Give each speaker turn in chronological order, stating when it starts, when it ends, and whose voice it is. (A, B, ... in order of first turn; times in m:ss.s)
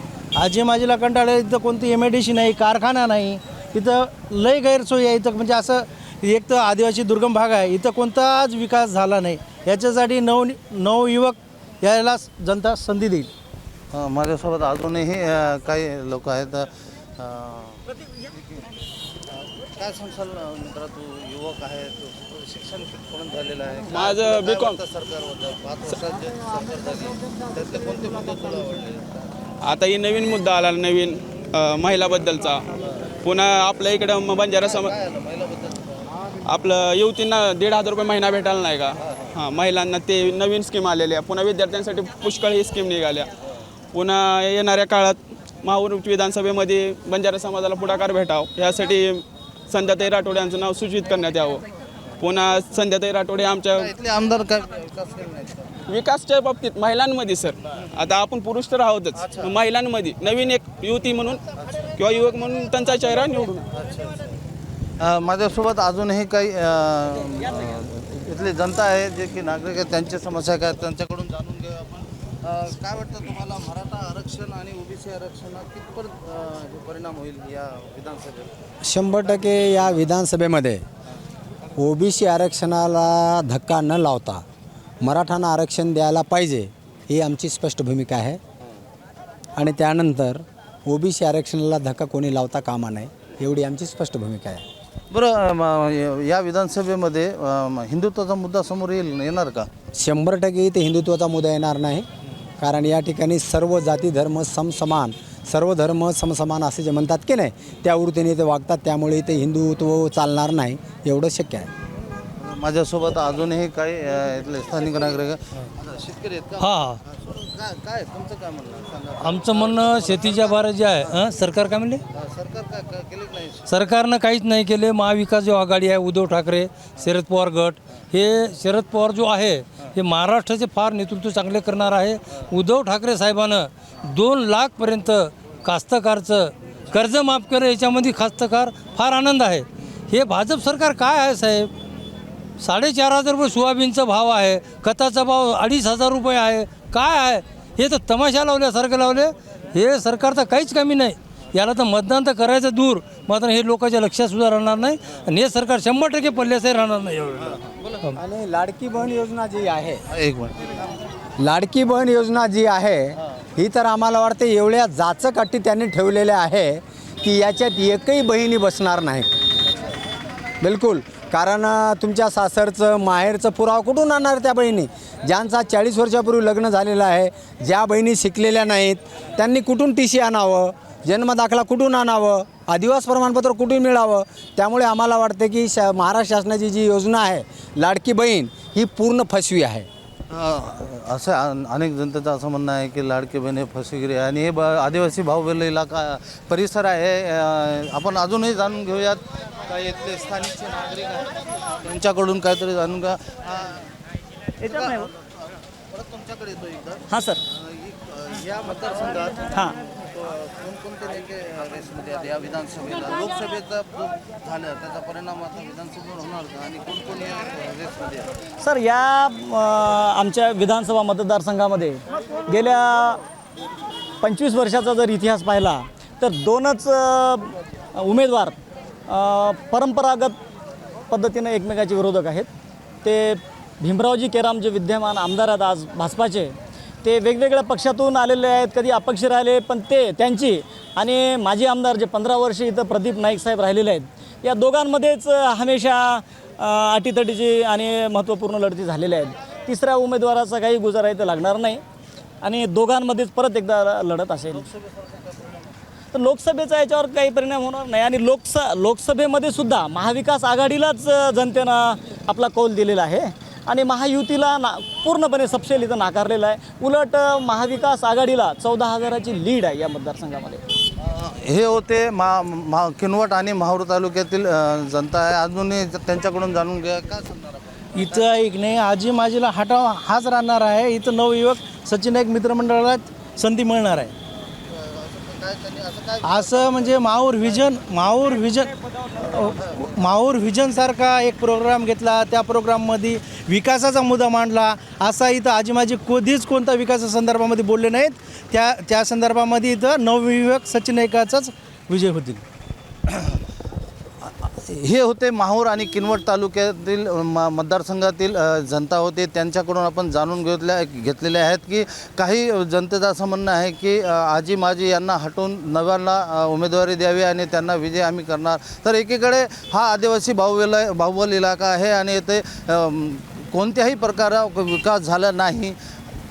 0:00.4-0:13.3 A
0:13.9-0:17.8 B
0:19.3-0:29.3 B
0:23.9-0:24.8 C
0:29.6-0:32.6 C
0:33.2-0:34.9 C
0:34.5-0:36.0 B
0:36.5-0:43.3 C
0:39.0-0:39.3 B
0:43.9-0:51.6 C
0:52.2-0:53.9 C
0:53.7-0:55.8 B
0:55.9-1:01.4 C
0:59.2-0:59.6 B
1:01.6-1:02.2 B
1:02.0-1:03.6 C
1:03.7-1:04.2 B
1:05.0-1:18.5 B
1:18.8-1:20.8 D
1:21.8-1:24.4 D
1:25.0-1:28.4 D
1:29.6-1:34.6 D
1:35.1-1:39.7 B
1:40.0-1:42.1 D
1:42.6-1:51.7 D
1:52.4-2:01.2 B
1:56.6-1:57.0 E
1:59.2-2:02.0 E
2:02.1-2:03.7 B
2:03.7-2:21.7 E
2:22.6-2:38.2 E
2:37.4-2:38.0 B
2:38.2-2:40.0 D
2:40.1-2:40.8 B
2:41.4-2:49.3 D
2:50.6-3:09.9 D
3:10.3-3:23.9 B
3:24.6-3:25.1 F
3:24.6-3:38.3 B
3:27.1-3:27.4 F
3:38.6-3:43.2 F
3:44.2-3:48.6 F
3:49.1-3:50.4 F
3:51.1-3:52.5 F
3:53.0-4:11.8 F
4:12.4-4:14.6 F
4:14.5-4:15.7 B
4:16.1-4:30.6 F
4:31.0-4:38.3 B
4:37.9-4:44.1 A
4:44.5-4:47.6 B
4:46.2-4:48.7 A
4:49.3-5:02.4 A
5:03.1-5:03.4 B
5:04.2-5:25.8 B